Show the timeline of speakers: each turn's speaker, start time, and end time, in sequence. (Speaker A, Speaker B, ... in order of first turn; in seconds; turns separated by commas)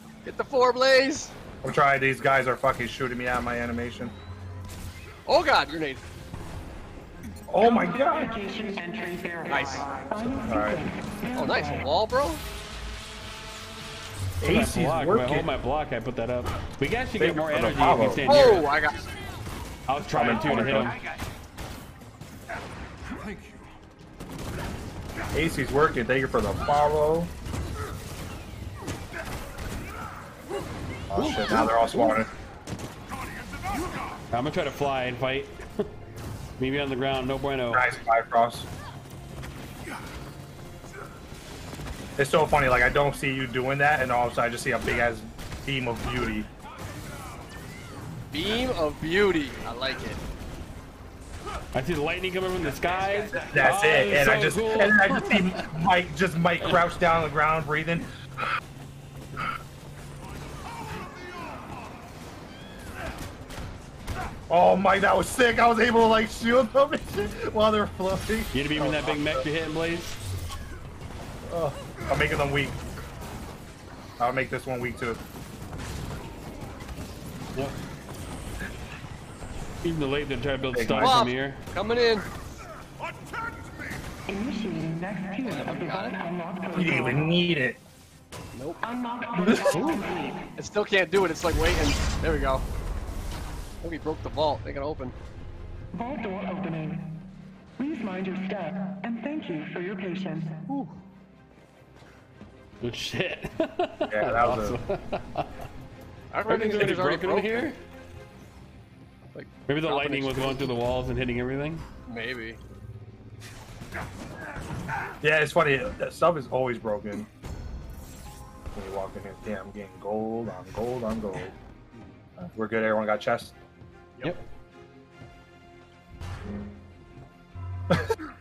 Speaker A: 0.2-1.3, Speaker B: 1.6-4.1, Speaker A: 5.3-6.0, Speaker B: 7.5-8.4, Speaker C: 8.6-9.1, Speaker A: 9.4-10.1, Speaker B: 10.3-10.9, Speaker A: 11.3-12.4, Speaker B: 14.4-15.5, Speaker D: 14.4-18.7, Speaker B: 17.2-18.3, Speaker A: 18.2-19.1, Speaker D: 19.9-21.0, Speaker B: 20.0-20.9, Speaker B: 25.3-27.3, Speaker B: 31.1-32.3, Speaker D: 31.1-32.2, Speaker D: 34.3-35.6, Speaker D: 36.6-38.0, Speaker B: 37.7-38.7, Speaker B: 42.2-46.5, Speaker A: 48.3-50.2, Speaker D: 51.7-55.7, Speaker B: 53.4-58.1, Speaker B: 64.5-69.4, Speaker D: 68.5-70.2, Speaker B: 71.4-72.8, Speaker B: 74.2-75.2, Speaker D: 79.8-81.6, Speaker B: 80.7-81.2, Speaker A: 81.0-82.3, Speaker C: 84.3-85.4, Speaker A: 85.4-86.2, Speaker C: 86.4-86.7, Speaker B: 86.7-87.8, Speaker A: 88.5-88.9, Speaker B: 89.3-89.8, Speaker D: 89.7-90.0, Speaker A: 90.5-92.6, Speaker A: 93.8-95.1, Speaker C: 96.0-97.0, Speaker C: 97.8-100.5, Speaker A: 100.7-101.0, Speaker D: 102.8-105.5, Speaker B: 104.1-104.8, Speaker A: 106.3-107.7, Speaker D: 106.5-107.8, Speaker A: 109.3-110.7, Speaker D: 109.7-111.8, Speaker A: 112.1-112.6, Speaker B: 115.2-117.3, Speaker B: 118.7-121.5, Speaker B: 122.4-123.5, Speaker D: 124.2-124.5